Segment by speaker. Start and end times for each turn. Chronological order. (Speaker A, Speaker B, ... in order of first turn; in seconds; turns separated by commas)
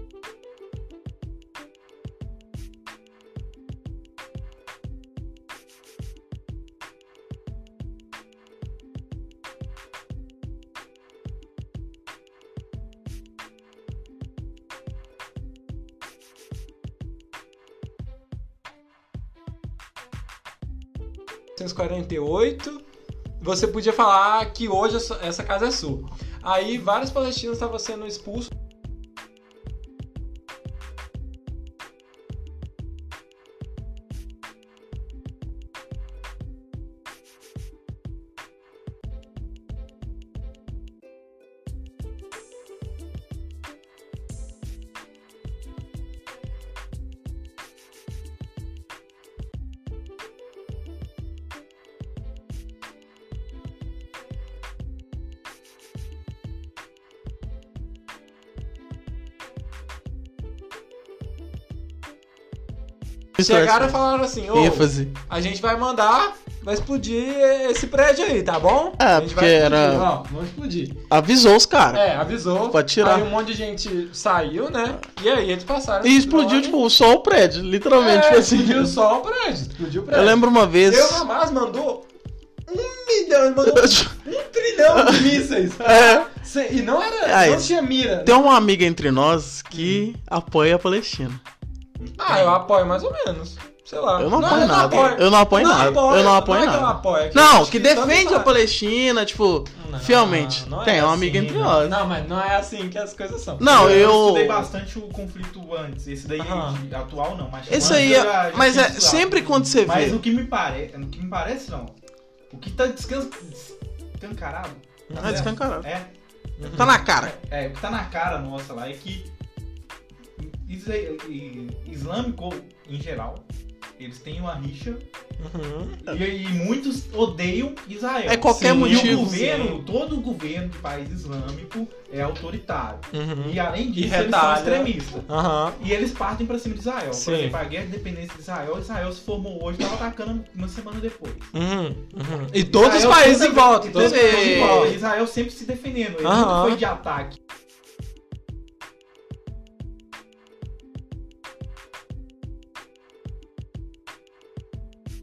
Speaker A: 21.6-22.8, Speaker A: 23.4-28.5, Speaker B: 63.4-65.1, Speaker A: 63.4-71.0, Speaker B: 69.0-70.1, Speaker B: 71.1-72.1, Speaker A: 71.9-76.8, Speaker B: 72.7-73.3, Speaker B: 76.0-79.0, Speaker A: 78.0-82.1, Speaker B: 80.1-81.2, Speaker A: 82.7-88.3, Speaker B: 83.6-84.2, Speaker B: 84.9-86.3, Speaker B: 87.2-91.4, Speaker A: 89.7-90.0, Speaker C: 92.0-92.6, Speaker A: 92.2-98.5, Speaker B: 94.2-102.0, Speaker C: 94.3-95.2, Speaker A: 99.8-104.1, Speaker C: 101.2-101.8, Speaker B: 103.6-104.7, Speaker C: 103.6-112.0, Speaker A: 106.4-106.8, Speaker B: 107.7-110.2, Speaker A: 107.7-108.1, Speaker C: 112.5-116.1, Speaker A: 115.1-115.5, Speaker B: 115.2-115.9, Speaker A: 116.6-117.0, Speaker B: 116.6-117.3, Speaker C: 116.8-119.3, Speaker C: 120.4-123.5, Speaker C: 124.0-125.0, Speaker A: 125.4-126.0, Speaker C: 126.0-135.3, Speaker B: 128.3-129.3, Speaker A: 128.5-129.8, Speaker A: 133.1-135.8, Speaker C: 135.8-141.5, Speaker A: 137.1-137.6, Speaker A: 141.5-144.9, Speaker C: 142.7-147.4, Speaker B: 143.9-145.0, Speaker A: 146.2-146.8